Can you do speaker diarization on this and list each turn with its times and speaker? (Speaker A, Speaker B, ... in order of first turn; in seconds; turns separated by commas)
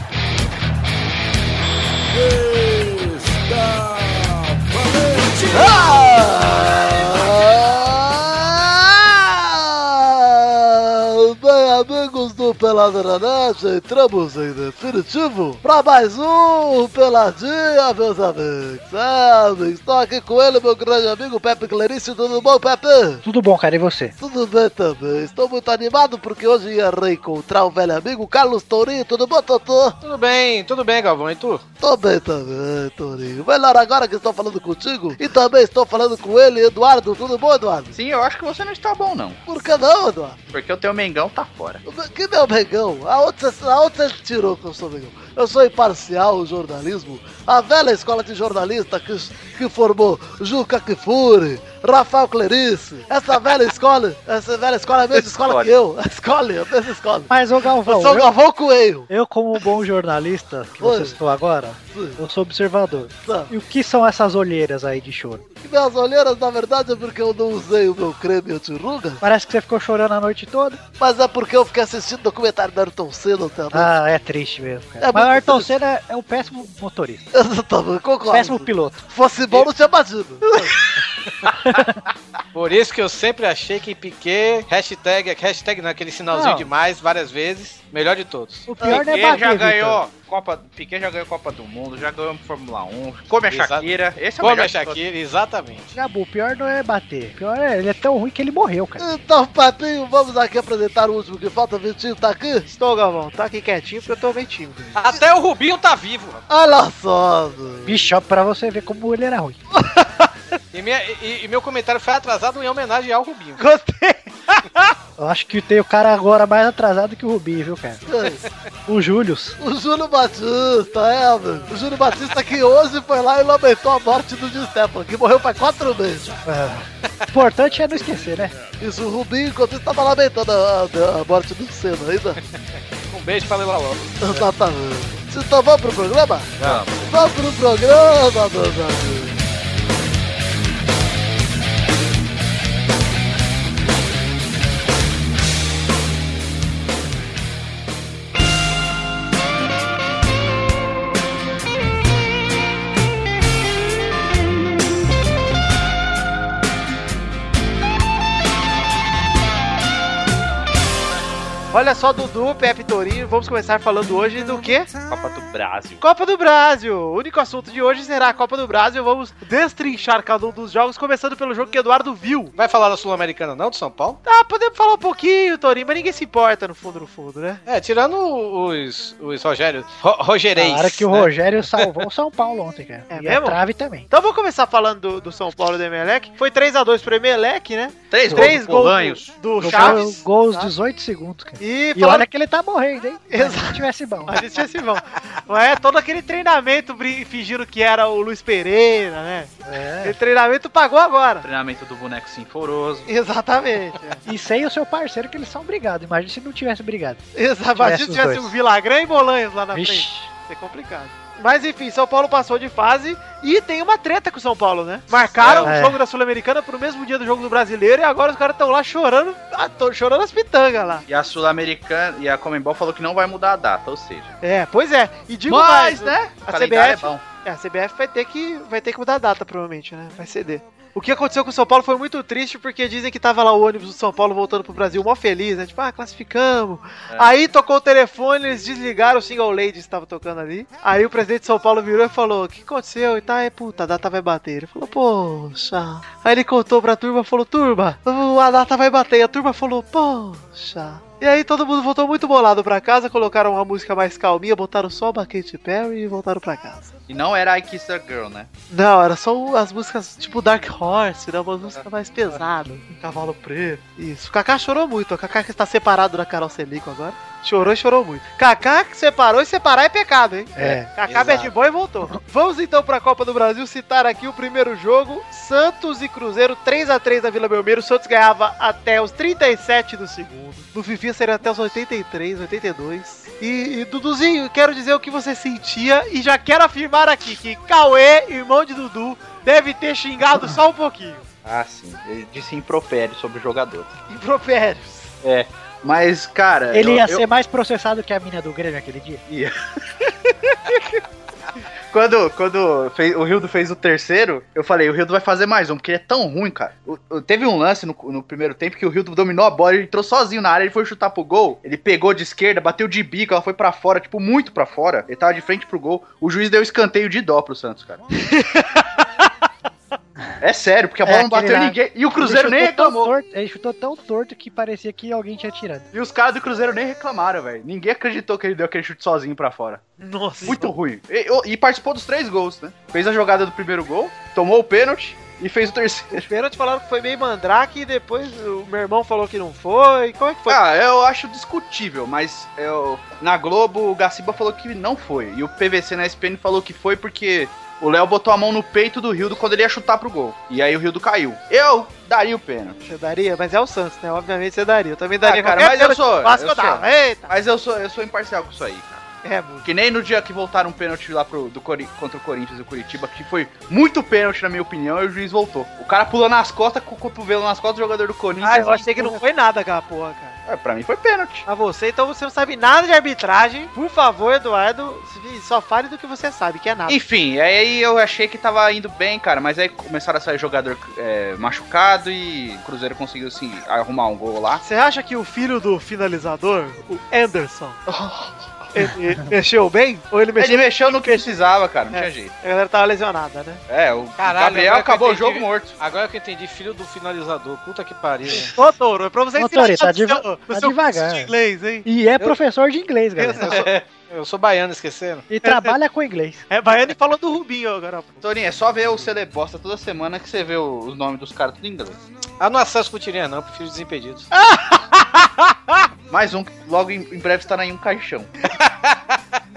Speaker A: 2.1-6.4, Speaker B: 5.5-23.2, Speaker C: 23.2-24.1, Speaker B: 24.2-29.9, Speaker D: 30.0-31.6, Speaker B: 31.8-37.9, Speaker E: 37.9-39.4, Speaker B: 39.5-40.4, Speaker E: 40.5-41.8, Speaker B: 41.9-57.3, Speaker E: 55.4-55.7, Speaker C: 57.3-58.3, Speaker B: 57.8-59.1, Speaker C: 59.1-65.4, Speaker B: 60.8-61.1, Speaker B: 61.9-62.2, Speaker B: 63.2-63.5, Speaker B: 65.6-69.2, Speaker C: 69.2-70.8, Speaker B: 71.0-73.9, Speaker C: 73.7-77.3, Speaker B: 75.0-75.7, Speaker B: 77.3-80.7, Speaker C: 78.3-79.0, Speaker C: 81.6-82.0, Speaker D: 82.5-88.7, Speaker C: 86.3-86.7, Speaker C: 88.7-90.0, Speaker B: 88.8-89.4, Speaker E: 88.8-95.0, Speaker D: 93.5-95.9, Speaker C: 95.9-99.0, Speaker B: 99.0-102.7, Speaker F: 102.7-105.0, Speaker D: 104.9-106.4, Speaker B: 106.5-107.9, Speaker C: 107.8-109.6, Speaker F: 109.8-110.3, Speaker D: 110.7-113.6, Speaker F: 113.6-114.9, Speaker C: 115.2-118.0, Speaker B: 118.1-118.4, Speaker C: 118.9-119.6, Speaker B: 119.6-126.4, Speaker C: 126.5-128.6, Speaker B: 128.8-132.4, Speaker D: 132.5-134.5, Speaker B: 134.2-136.5, Speaker E: 136.6-137.1, Speaker B: 137.1-139.4, Speaker F: 161.7-164.9, Speaker E: 165.1-166.0, Speaker F: 166.0-172.5, Speaker D: 172.6-174.2, Speaker F: 174.2-177.6, Speaker D: 177.7-181.9, Speaker C: 180.5-184.1, Speaker F: 183.1-183.6, Speaker F: 184.1-190.7, Speaker E: 188.1-190.0, Speaker C: 188.3-188.6, Speaker C: 189.6-194.5, Speaker F: 191.6-192.2, Speaker F: 193.3-201.4, Speaker C: 199.7-200.2, Speaker E: 201.4-203.1, Speaker F: 203.1-204.2, Speaker C: 204.3-207.2, Speaker F: 207.3-221.0, Speaker C: 207.8-208.5, Speaker C: 209.7-210.3, Speaker D: 215.4-215.7, Speaker C: 215.6-216.0, Speaker E: 221.1-224.3, Speaker F: 224.4-256.9, Speaker E: 225.5-227.2, Speaker E: 257.1-258.5, Speaker F: 258.7-291.2, Speaker C: 270.6-270.9, Speaker D: 270.6-271.5, Speaker E: 291.4-293.9, Speaker F: 294.1-295.1, Speaker E: 295.2-297.2, Speaker C: 296.7-299.2, Speaker E: 299.3-301.0, Speaker E: 301.9-318.0, Speaker F: 318.2-319.3, Speaker E: 320.4-323.1, Speaker C: 321.0-325.9, Speaker E: 325.9-329.8, Speaker F: 330.0-330.7, Speaker E: 330.4-336.3, Speaker F: 336.2-340.6, Speaker E: 340.5-352.8, Speaker F: 352.8-357.3, Speaker E: 355.2-359.0, Speaker F: 359.2-359.6, Speaker E: 359.6-369.2, Speaker F: 368.4-370.4, Speaker E: 370.5-371.4, Speaker F: 371.5-377.0, Speaker E: 376.9-384.6, Speaker F: 384.6-387.8, Speaker E: 387.9-388.5, Speaker F: 388.7-391.2, Speaker E: 390.4-392.3, Speaker F: 391.9-393.6, Speaker E: 393.7-395.8, Speaker D: 394.2-398.5, Speaker F: 398.4-401.9, Speaker C: 399.4-401.3, Speaker C: 401.8-403.5, Speaker F: 403.2-403.6, Speaker D: 403.5-405.2, Speaker C: 405.3-406.4, Speaker F: 405.4-405.7, Speaker F: 406.5-408.2, Speaker E: 408.2-412.0, Speaker D: 412.4-414.3, Speaker F: 414.3-415.8, Speaker E: 416.1-418.3, Speaker D: 418.6-419.0